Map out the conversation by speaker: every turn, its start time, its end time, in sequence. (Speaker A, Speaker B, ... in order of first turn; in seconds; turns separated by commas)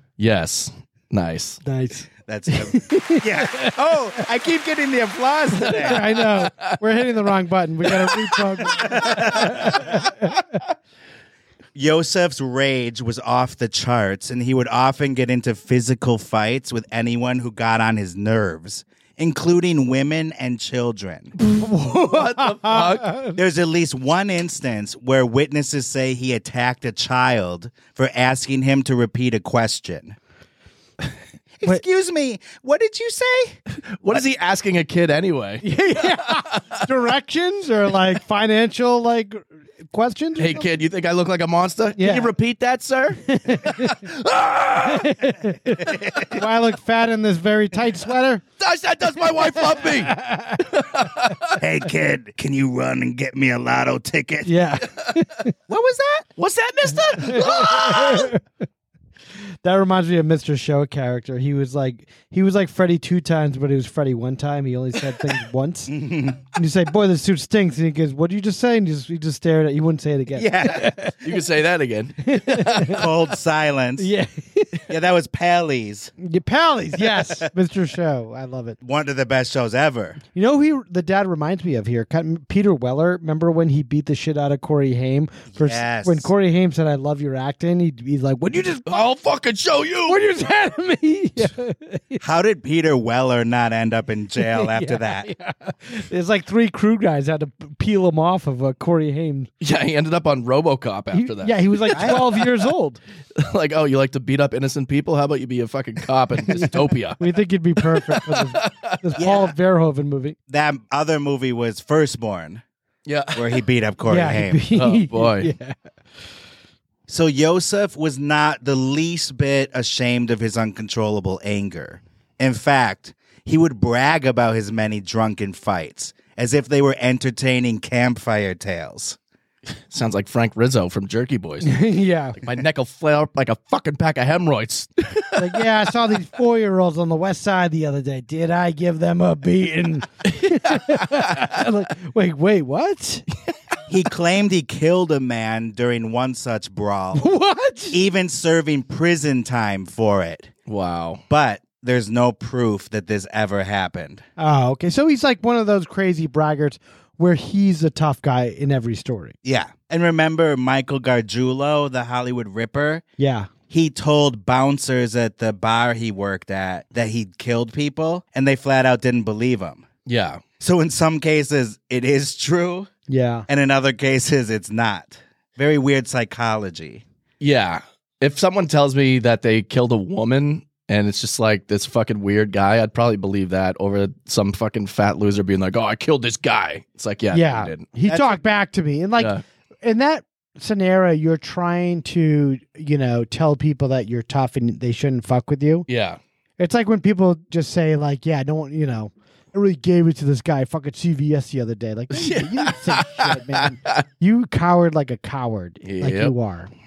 Speaker A: 0.2-1.6, Speaker B: 1.6-3.7, Speaker C: 2.3-6.1, Speaker B: 5.6-10.4, Speaker A: 5.7-6.8, Speaker A: 7.9-9.8, Speaker C: 8.9-9.8, Speaker C: 11.8-21.3, Speaker B: 21.4-23.4, Speaker A: 21.9-23.1, Speaker C: 23.3-30.1, Speaker C: 31.6-33.6, Speaker A: 33.9-36.6, Speaker B: 35.6-40.7, Speaker A: 40.4-45.2, Speaker B: 42.0-42.3, Speaker B: 43.3-44.0, Speaker B: 44.8-48.4, Speaker C: 45.9-46.3, Speaker A: 48.6-50.2, Speaker B: 49.4-50.7, Speaker A: 50.7-51.5, Speaker C: 51.6-54.5, Speaker B: 54.4-55.5, Speaker C: 55.7-56.3, Speaker A: 56.4-58.3, Speaker B: 57.2-58.4, Speaker B: 59.6-65.9, Speaker C: 65.9-66.4, Speaker B: 66.5-71.1, Speaker C: 70.3-71.0, Speaker A: 71.2-73.1, Speaker B: 72.3-73.0, Speaker C: 72.9-74.1, Speaker B: 74.0-74.8, Speaker C: 74.9-76.1, Speaker B: 76.2-78.8, Speaker C: 78.8-80.2, Speaker B: 80.3-89.1, Speaker C: 85.5-86.3, Speaker A: 88.8-90.3, Speaker B: 90.1-92.2, Speaker C: 92.2-95.3, Speaker B: 94.4-99.5, Speaker A: 99.6-102.3, Speaker B: 101.1-103.0, Speaker C: 101.9-102.3, Speaker A: 103.3-107.2, Speaker B: 106.5-110.3, Speaker A: 107.8-109.2, Speaker C: 109.2-109.5, Speaker C: 110.5-112.6, Speaker A: 113.0-113.6, Speaker C: 113.3-114.6, Speaker B: 114.1-115.8, Speaker A: 114.7-115.5, Speaker C: 117.1-129.2, Speaker A: 129.7-131.8, Speaker B: 131.6-132.4, Speaker A: 132.4-135.6, Speaker B: 135.3-143.2, Speaker C: 143.9-147.3, Speaker B: 147.2-148.0, Speaker C: 147.9-150.5, Speaker A: 150.7-151.2, Speaker C: 151.3-154.2, Speaker B: 154.4-159.3, Speaker C: 159.4-163.0, Speaker B: 163.2-163.5, Speaker C: 163.7-169.8, Speaker A: 170.1-170.4, Speaker C: 170.6-172.9, Speaker B: 173.1-173.5, Speaker C: 173.5-177.0, Speaker A: 177.4-187.8, Speaker B: 187.3-195.9, Speaker C: 188.1-188.4, Speaker A: 195.9-196.2, Speaker B: 196.6-206.7, Speaker A: 202.1-204.0, Speaker A: 205.8-206.3